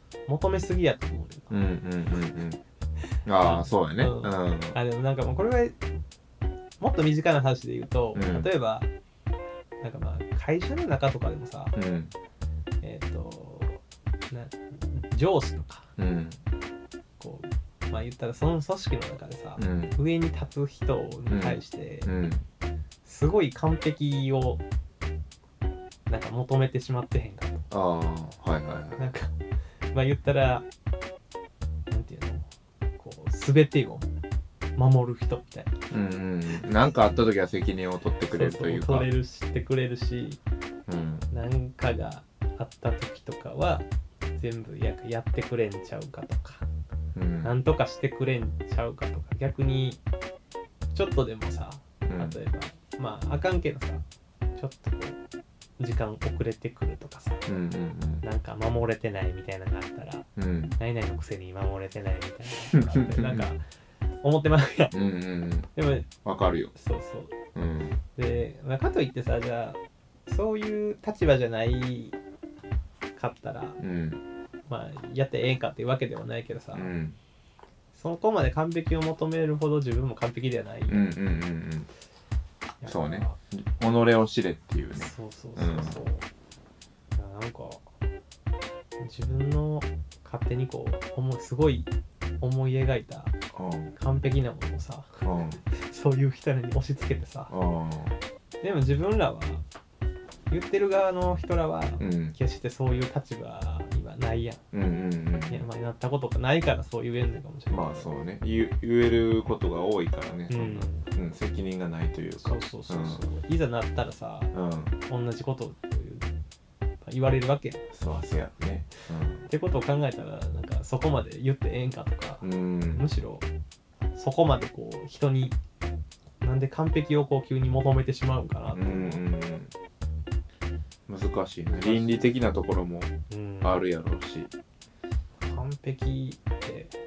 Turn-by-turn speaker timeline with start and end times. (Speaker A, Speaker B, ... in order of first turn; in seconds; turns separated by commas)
Speaker A: 0.3-1.5, Speaker B: 1.5-2.6, Speaker B: 3.2-4.8, Speaker A: 3.4-5.8, Speaker A: 6.8-8.9, Speaker B: 8.1-8.5, Speaker A: 9.8-11.8, Speaker B: 11.8-12.1, Speaker A: 12.8-15.9, Speaker B: 16.0-16.4, Speaker A: 17.2-22.1, Speaker B: 19.6-20.0, Speaker B: 21.3-22.4, Speaker A: 23.0-24.6, Speaker A: 26.1-27.6, Speaker B: 27.7-29.1, Speaker A: 29.0-29.3, Speaker A: 29.9-30.7, Speaker A: 31.9-32.5, Speaker A: 33.0-34.1, Speaker A: 34.8-35.7, Speaker B: 35.9-39.1, Speaker A: 38.3-40.4, Speaker B: 40.9-41.3, Speaker A: 41.3-46.6, Speaker B: 47.1-47.5, Speaker A: 47.4-50.0, Speaker A: 50.9-54.0, Speaker B: 52.0-52.4, Speaker A: 54.5-55.2, Speaker A: 55.8-57.5, Speaker B: 57.5-58.2, Speaker A: 58.2-63.6, Speaker B: 60.4-60.8, Speaker B: 62.7-63.5, Speaker A: 64.2-64.9, Speaker B: 64.9-65.7, Speaker A: 65.8-66.1, Speaker B: 66.2-66.7, Speaker A: 66.7-67.4, Speaker B: 67.5-68.0, Speaker A: 68.2-72.2, Speaker A: 73.2-73.8, Speaker B: 73.8-74.2, Speaker A: 74.7-76.9, Speaker B: 76.7-77.2, Speaker A: 77.9-81.1, Speaker B: 80.9-81.9, Speaker A: 82.8-83.4, Speaker B: 82.8-86.0, Speaker A: 85.0-86.2, Speaker A: 87.2-87.8, Speaker A: 89.0-91.9, Speaker A: 92.4-93.3, Speaker B: 93.5-93.9, Speaker A: 94.0-97.5, Speaker B: 95.2-95.6, Speaker B: 97.5-98.2, Speaker A: 98.6-99.6, Speaker A: 100.5-104.6, Speaker B: 102.0-102.3, Speaker B: 104.7-105.6, Speaker A: 105.5-108.1, Speaker B: 107.7-113.2, Speaker A: 110.5-111.0, Speaker A: 112.4-114.5, Speaker B: 114.5-115.0, Speaker A: 115.1-116.3, Speaker A: 117.0-117.8, Speaker B: 117.9-119.5, Speaker A: 119.5-123.5, Speaker B: 122.4-123.0, Speaker A: 124.2-125.6, Speaker A: 126.4-129.2, Speaker B: 128.7-129.7, Speaker B: 131.1-134.5, Speaker A: 131.7-132.3, Speaker A: 133.3-133.8, Speaker A: 135.4-137.0